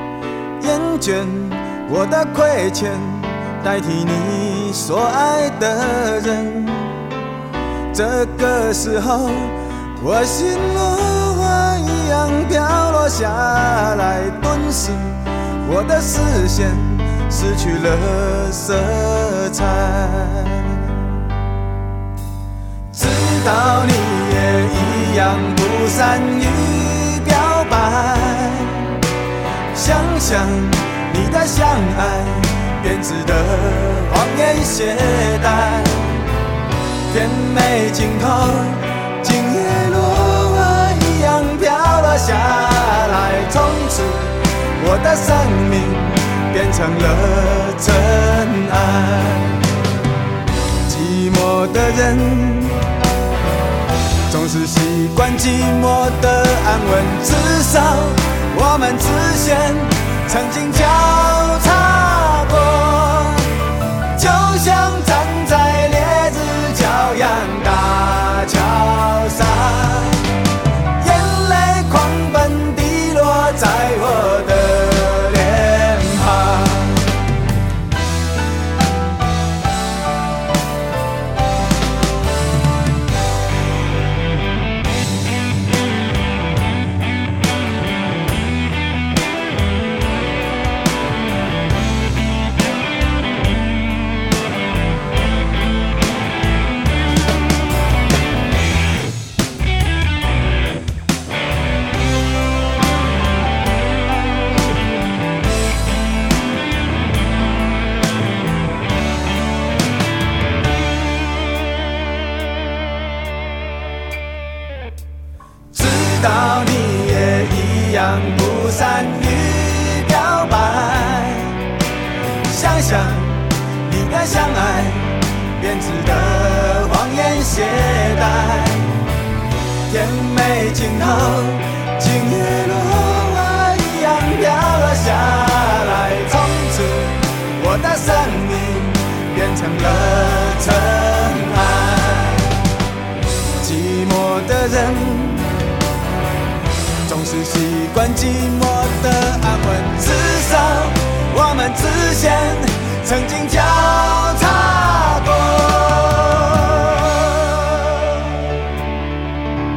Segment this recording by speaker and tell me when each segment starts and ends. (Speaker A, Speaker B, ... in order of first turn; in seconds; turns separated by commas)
Speaker A: 0.6-7.0, Speaker A: 7.9-20.9, Speaker A: 22.9-29.0, Speaker A: 29.7-36.2, Speaker A: 37.1-49.6, Speaker A: 50.9-52.8, Speaker A: 54.3-63.5, Speaker A: 64.1-70.2, Speaker A: 71.0-77.1, Speaker A: 115.7-121.6, Speaker A: 122.5-129.0, Speaker A: 129.9-142.5, Speaker A: 143.6-145.6, Speaker A: 147.1-158.3